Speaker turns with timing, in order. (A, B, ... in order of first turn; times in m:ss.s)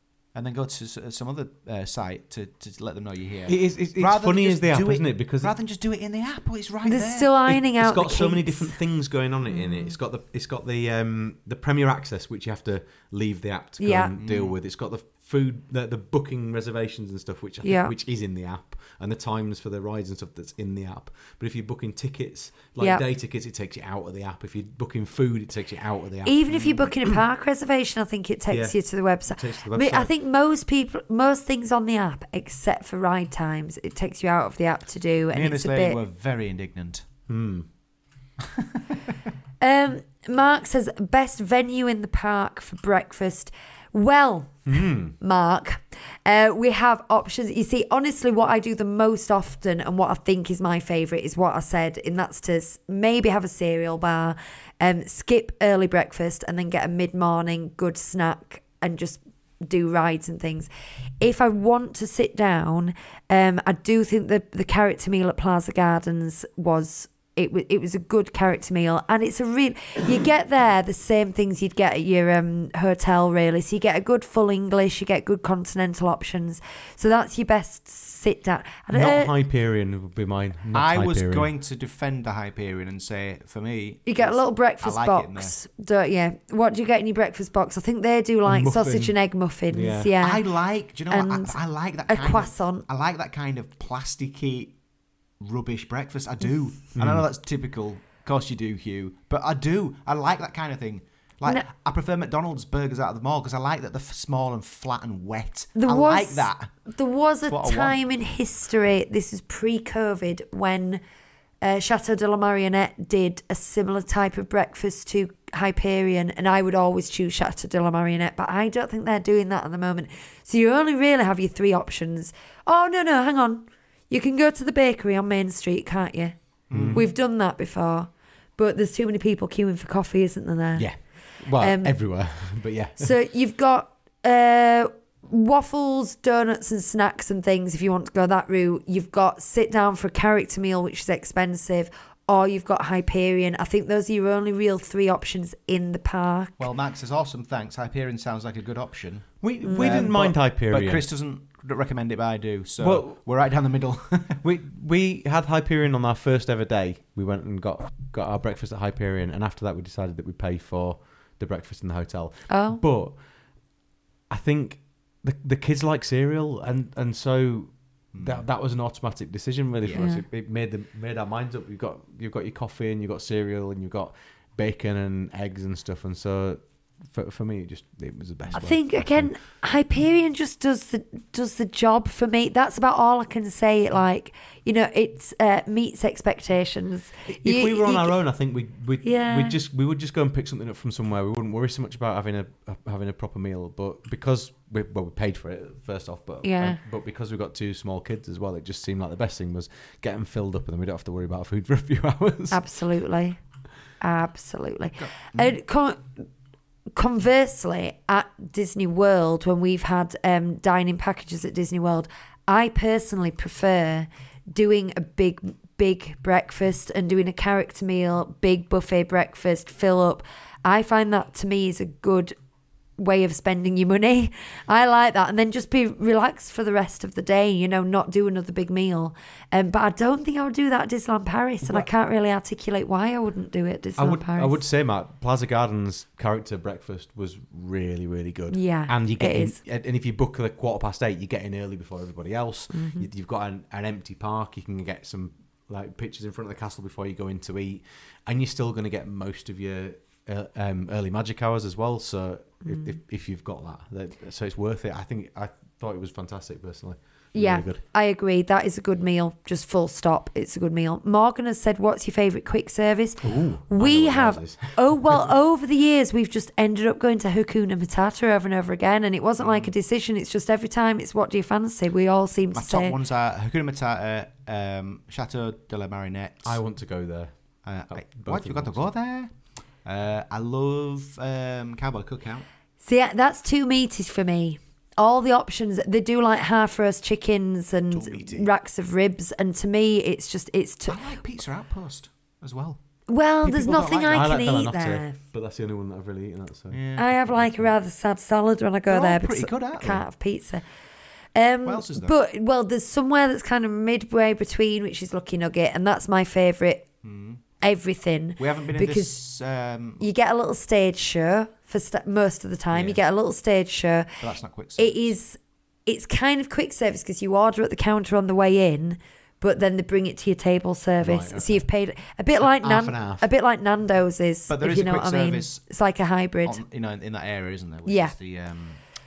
0:00.3-0:07.3 A
0:03.5-0:05.5 B
0:06.8-0:08.8 C
0:07.5-0:27.2 B
0:09.5-0:10.0 C
0:13.8-0:14.1 C
0:14.2-0:14.6 A
0:17.6-0:17.9 C
0:26.2-0:36.0 C
0:28.5-0:30.1 B
0:35.3-0:37.0 A
0:37.3-0:37.7 B
0:38.6-0:38.8 A
0:39.6-1:00.7 C
0:44.7-0:45.1 B
1:01.2-1:19.3 C
1:18.9-1:21.5 B
1:20.7-1:25.6 A
1:24.1-1:30.4 C
1:28.5-1:29.2 B
1:29.7-1:30.2 B
1:30.2-1:34.8 A
1:31.1-1:32.8 C
1:35.4-1:46.7 A
1:37.0-1:37.3 B
1:45.8-1:51.0 C
1:47.5-1:48.0 A
1:51.6-2:06.3 C
2:06.7-2:07.1 A
2:06.7-2:07.1 B
2:06.9-2:12.0 C
2:10.8-2:13.1 B
2:13.0-2:26.7 C
2:26.6-2:34.4 A
2:29.4-2:31.0 B
2:29.6-2:30.1 C
2:32.8-2:33.2 B
2:34.4-2:43.2 B
2:42.5-2:42.8 C
2:44.3-2:59.3 B
2:48.1-2:48.5 A
2:49.8-2:50.1 A
2:50.0-2:50.2 C
2:58.5-3:08.1 C
3:07.3-3:22.6 B
3:09.0-3:09.6 C
3:16.4-3:16.8 C
3:22.5-3:23.4 C
3:24.0-3:26.2 C
3:25.0-3:25.5 A
3:27.0-3:42.4 C
3:43.0-3:54.6 C
3:54.0-4:17.8 B
3:58.5-3:59.6 C
4:02.7-4:03.1 C
4:12.6-4:13.0 C
4:17.3-4:33.0 C
4:23.2-4:25.3 B
4:29.4-4:29.7 A
4:32.5-4:36.6 A
4:36.4-4:37.3 B
4:37.6-4:42.5 A
4:37.9-4:38.9 B
4:42.8-4:51.2 C
4:47.9-4:48.5 A
4:50.9-4:52.8 A
4:53.1-4:55.2 C
4:53.4-4:54.3 A
4:54.1-4:56.8 B
4:56.7-4:57.2 A
4:57.0-5:00.6 C
4:58.9-5:00.1 A
5:01.4-5:06.9 C
5:01.6-5:02.1 A
5:07.0-5:07.4 A
5:07.6-5:09.2 C
5:08.4-5:10.0 A
5:10.0-5:14.2 C
5:12.7-5:13.0 A
5:14.2-5:15.1 A
5:14.8-5:26.6 C
5:21.0-5:21.7 B
5:22.4-5:23.3 B
5:24.5-5:25.6 A
5:26.4-5:28.8 A
5:27.9-5:28.1 C